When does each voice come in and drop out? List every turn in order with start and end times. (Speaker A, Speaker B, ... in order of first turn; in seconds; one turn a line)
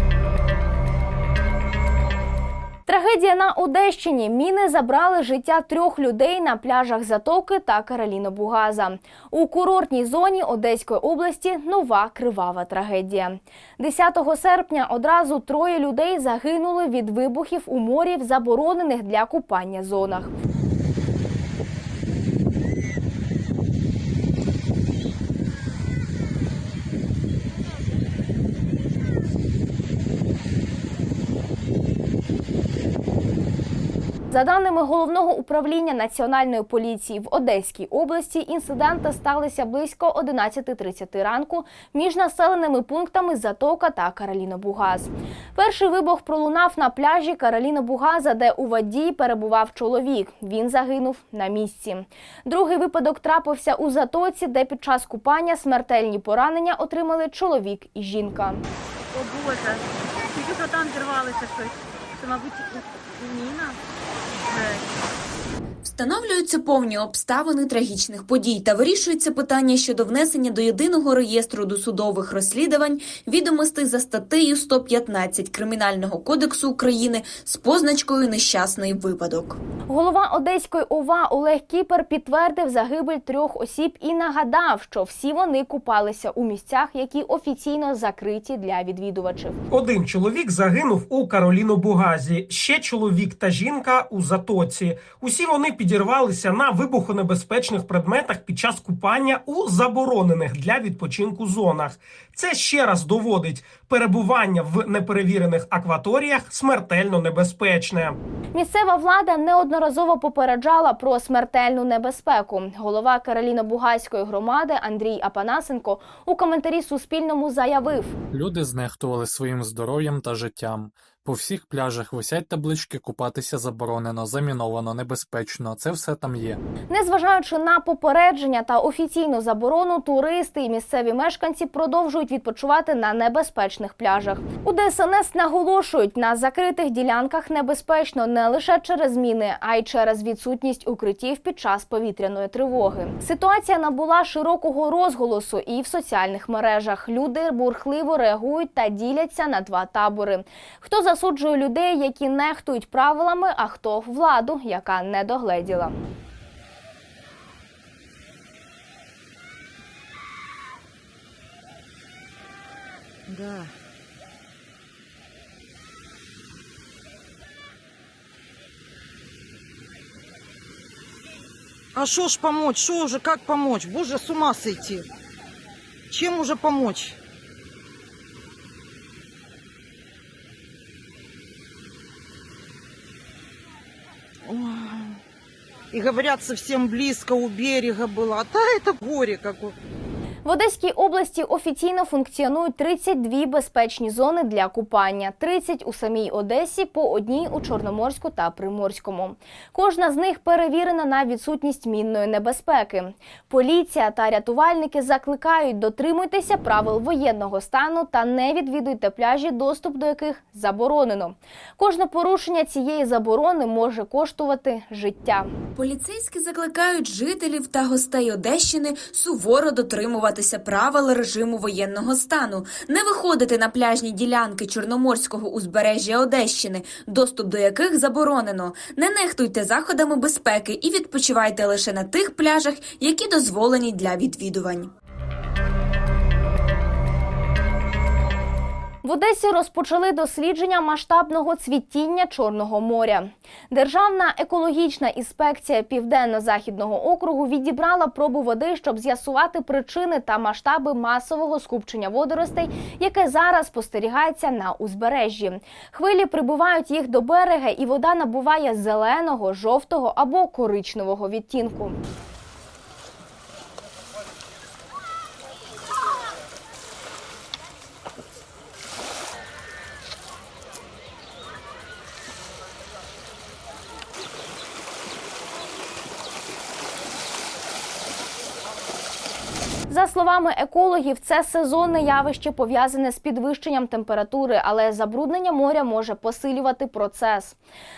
Speaker A: 2.9-20.4
Speaker A: 34.3-58.6
Speaker B: 59.1-63.8
Speaker B: 64.4-64.9
Speaker C: 65.8-79.6
Speaker A: 79.9-89.6
Speaker D: 89.7-108.2
Speaker A: 108.5-118.1
Speaker E: 118.3-126.6
Speaker A: 126.9-155.9
Speaker F: 163.3-163.7
Speaker F: 171.9-175.0
Speaker F: 176.1-177.2
Speaker F: 184.5-184.9
Speaker F: 185.9-189.7
Speaker A: 190.4-215.5
Speaker C: 215.8-234.9
Speaker A: 239.0-262.0
Speaker A: 279.9-287.6